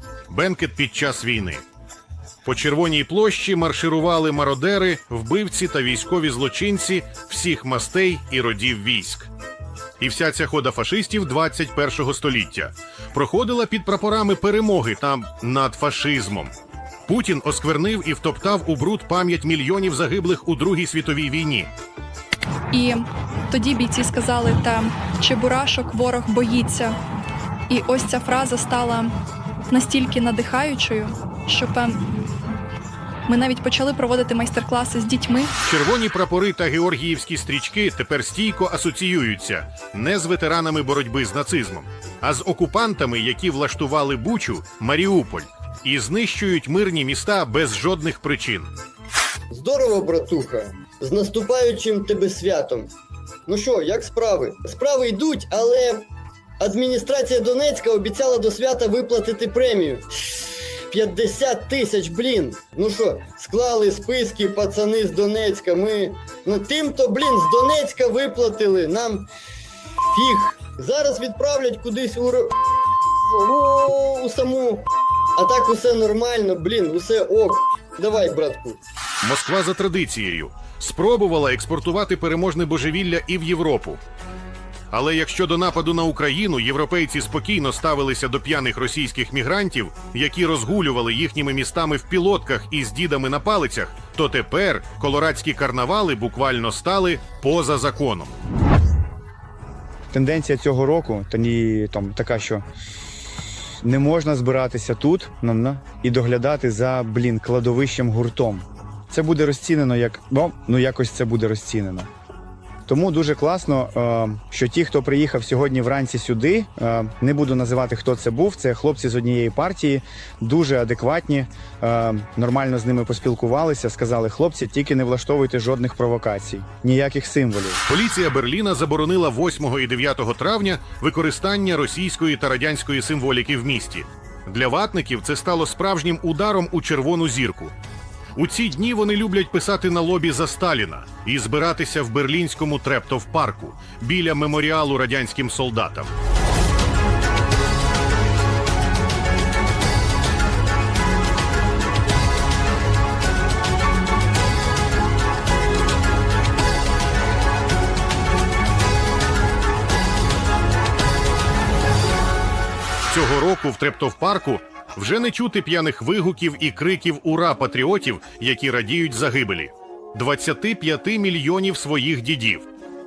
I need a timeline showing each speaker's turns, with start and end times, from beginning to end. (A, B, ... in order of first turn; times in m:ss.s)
0:00.3-0:01.6 A
0:02.4-0:09.3 A
0:10.0-0:16.5 A
0:17.1-0:21.7 A
0:22.7-0:27.0 B
0:27.7-0:29.1 B
0:29.7-0:32.0 B
0:33.3-0:35.5 B
0:35.6-0:48.7 A
0:49.5-0:52.9 C
0:53.5-0:56.0 C
0:56.6-1:09.3 C
1:10.1-1:12.5 C
1:13.3-1:18.8 C
1:19.2-1:24.0 A
1:24.9-1:38.3 A
1:40.1-1:42.6 D
1:43.8-1:52.1 D
1:52.9-2:07.8 D
2:07.9-2:17.7 A
2:18.3-2:26.1 A
2:43.1-2:52.7 A